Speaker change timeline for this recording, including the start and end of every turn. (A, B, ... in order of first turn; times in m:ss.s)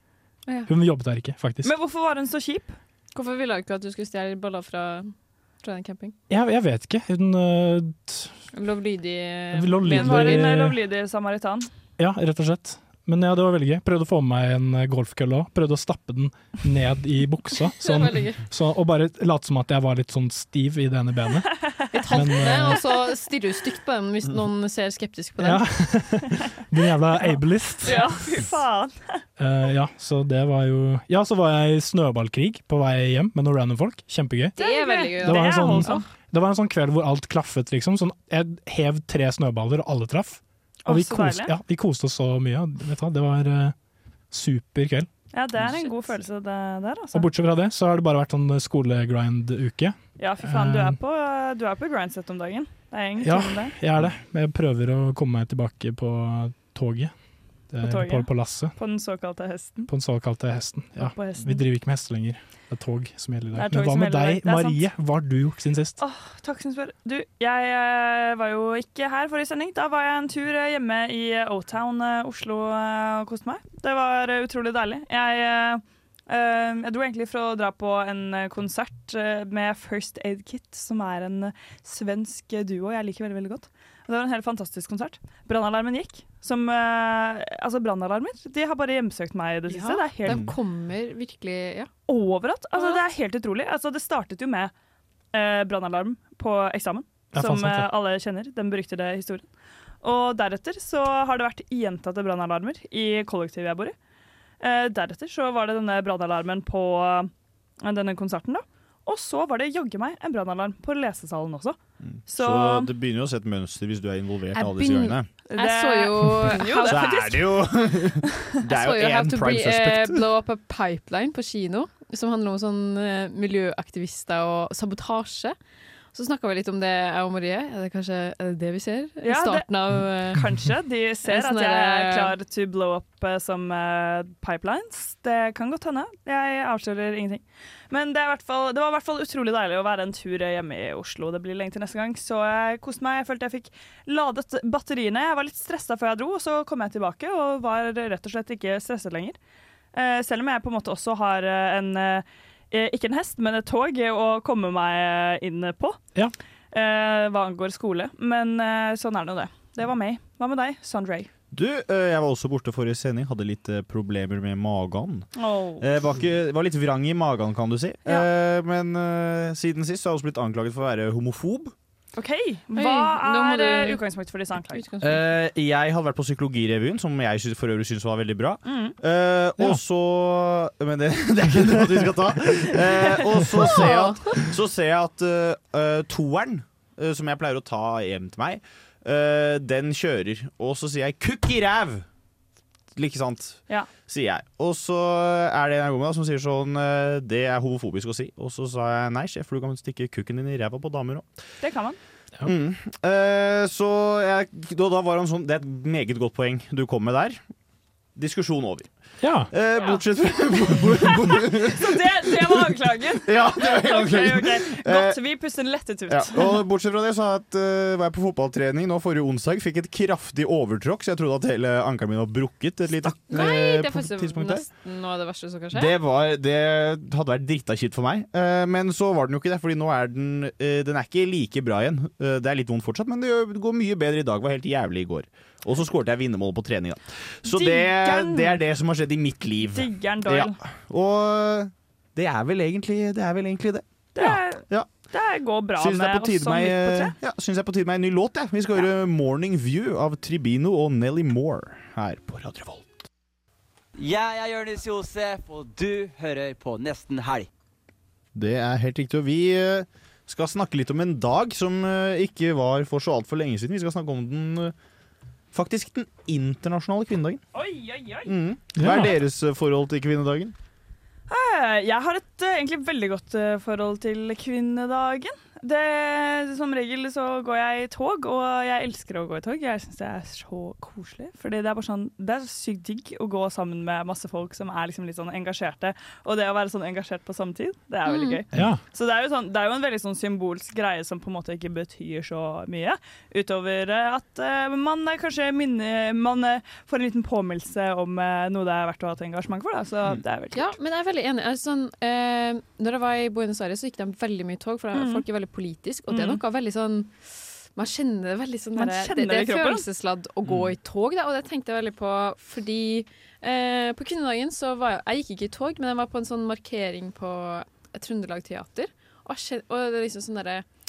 0:00.7-0:01.7 A
0:01.6-0:02.8 B
0:03.1-0:05.1 C
0:05.6-0:06.1 C
0:06.3-0:08.3 A
0:08.5-0:10.5 C
0:09.5-0:10.8 A
0:09.8-0:11.7 B
0:12.0-0:22.8 A
0:17.8-0:18.4 C
0:21.9-0:25.6 C
0:25.4-0:28.1 A
0:27.8-0:29.2 B
0:27.8-0:28.2 C
0:29.4-0:34.6 A
0:34.6-0:36.1 C
0:34.6-0:36.0 B
0:35.1-0:43.7 A
0:40.8-0:41.5 B
0:44.3-0:45.1 A
0:45.3-0:47.3 B
0:47.1-0:51.0 A
0:50.2-0:53.7 B
0:53.2-0:57.1 A
0:57.7-0:58.7 A
0:57.8-0:59.9 B
0:59.9-1:06.0 A
1:01.0-1:01.6 B
1:03.5-1:04.8 B
1:06.0-1:30.4 B
1:29.7-1:31.9 C
1:30.3-1:30.5 D
1:32.1-1:34.7 B
1:35.3-1:39.4 B
1:37.3-1:37.9 A
1:40.0-1:43.9 B
1:44.6-1:47.3 B
1:47.8-1:51.8 B
1:52.0-1:55.3 D
1:52.3-1:52.9 B
1:54.5-1:57.6 C
1:55.5-1:57.1 B
1:56.8-2:00.2 D
1:58.7-2:05.6 C
2:06.1-2:10.4 C
2:09.2-2:29.4 B
2:11.2-2:12.3 C
2:29.9-2:36.0 B
2:36.7-2:41.3 B
2:41.5-2:45.3 D
2:45.4-2:45.9 B
2:45.8-2:51.7 D
2:52.1-2:54.8 B
2:52.8-2:54.0 C
2:54.7-2:55.2 C
2:55.0-3:12.0 D
2:58.6-2:59.0 B
3:03.6-3:04.4 C
3:12.9-3:21.2 D
3:21.6-3:22.0 B
3:22.4-3:27.4 D
3:28.2-3:28.9 D
3:29.2-3:29.5 A
3:29.5-3:35.2 D
3:31.0-3:36.6 B
3:36.1-3:44.6 D
3:43.2-3:45.9 C
3:45.7-4:03.8 D
3:57.5-3:58.6 B
3:59.7-4:00.6 B
4:04.1-4:07.1 B
4:05.8-4:13.1 D
4:14.0-4:17.5 E
4:18.3-4:24.7 D
4:25.5-4:27.4 D
4:27.5-4:28.3 B
4:28.2-4:30.5 D
4:28.8-4:29.1 A
4:31.3-5:00.7 B
4:48.0-4:48.4 C
4:48.5-4:48.8 A
5:00.5-5:07.1 C
5:04.9-5:05.2 B
5:06.1-5:06.4 B
5:07.7-5:20.6 C
5:08.8-5:09.8 B
5:10.4-5:10.7 D